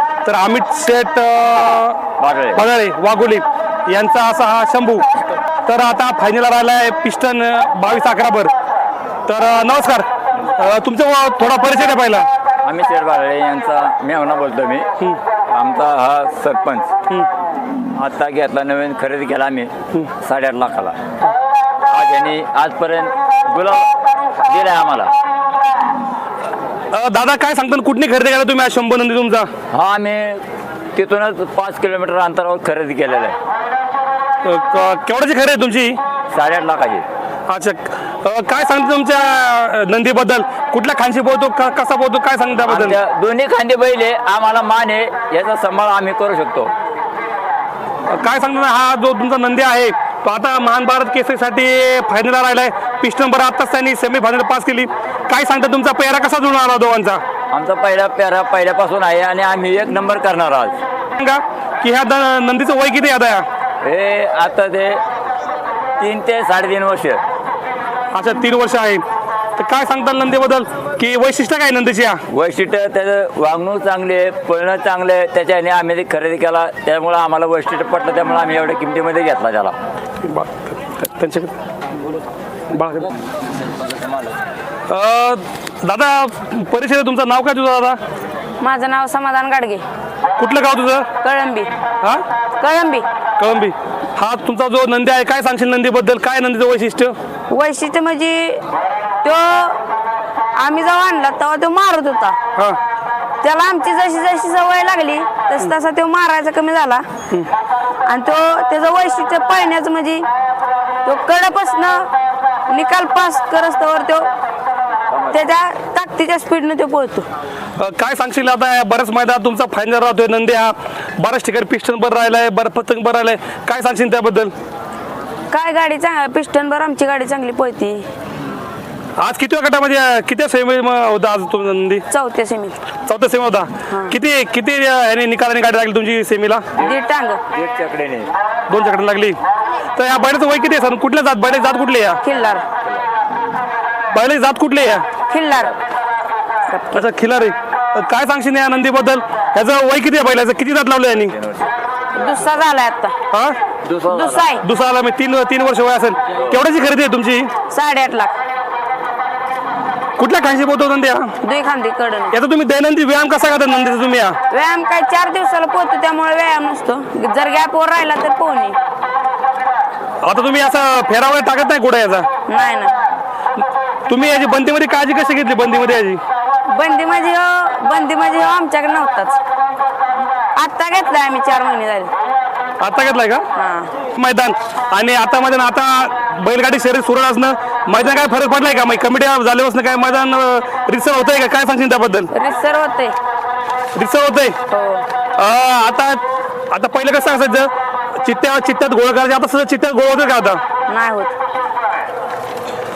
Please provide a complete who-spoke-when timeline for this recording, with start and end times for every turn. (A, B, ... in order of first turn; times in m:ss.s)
0:00.2-0:02.0 A
0:02.2-0:02.6 B
0:02.5-0:05.1 A
0:05.7-0:08.5 A
0:09.3-0:12.3 A
0:12.6-0:14.9 B
0:15.5-0:16.9 B
0:17.9-0:21.0 B
0:21.9-0:25.2 B
0:26.9-0:29.5 A
0:29.7-0:33.4 B
0:34.4-0:36.0 A
0:36.3-0:37.1 B
0:37.5-0:43.0 A
0:42.6-0:46.7 B
0:48.1-0:57.2 A
0:57.5-1:00.8 B
1:01.2-1:03.5 A
1:03.8-1:05.0 B
1:06.0-1:07.2 B
1:08.1-1:09.0 A
1:09.6-1:12.2 A
1:12.3-1:19.8 B
1:20.2-1:21.5 A
1:22.7-1:23.1 A
1:23.4-1:24.4 B
1:24.9-1:28.0 A
1:28.6-1:29.8 C
1:30.4-1:31.1 A
1:31.2-1:31.7 C
1:32.6-1:33.1 C
1:33.4-1:37.2 A
1:37.5-1:38.6 C
1:39.2-1:39.8 C
1:40.6-1:42.4 C
1:43.4-1:47.1 C
1:48.0-1:50.3 C
1:51.0-1:52.1 C
1:52.7-1:54.3 C
1:55.1-1:55.4 B
1:55.3-1:57.3 C
1:57.8-2:04.5 A
2:05.5-2:08.1 C
2:09.2-2:12.1 A
2:12.1-2:12.8 C
2:13.0-2:16.6 A
2:13.9-2:14.2 C
2:16.8-2:17.4 C
2:17.5-2:18.3 B
2:18.7-2:19.4 A
2:20.0-2:22.2 A
2:22.2-2:22.6 C
2:24.1-2:25.1 A
2:25.3-2:25.8 C
2:26.7-2:27.1 C
2:26.9-2:31.4 A
2:31.2-2:32.5 B
2:32.2-2:33.2 C
2:33.3-2:33.6 A
2:33.8-2:34.7 B
2:34.1-2:34.6 C
2:34.6-2:37.5 A
2:36.4-2:36.6 B
2:37.7-2:38.4 C
2:40.2-2:41.4 A
2:41.4-2:42.4 C
2:42.3-2:44.4 A
2:44.5-2:48.8 C
2:50.2-2:52.3 A
2:52.5-2:52.9 C
2:54.1-2:56.2 A
2:56.6-2:59.4 C
3:00.6-3:02.1 C
3:02.8-3:03.4 A
3:03.6-3:03.9 C
3:04.2-3:12.3 A
3:12.3-3:13.2 C
3:13.9-3:14.6 A
3:14.7-3:15.1 C
3:15.4-3:20.6 A
3:20.9-3:21.3 C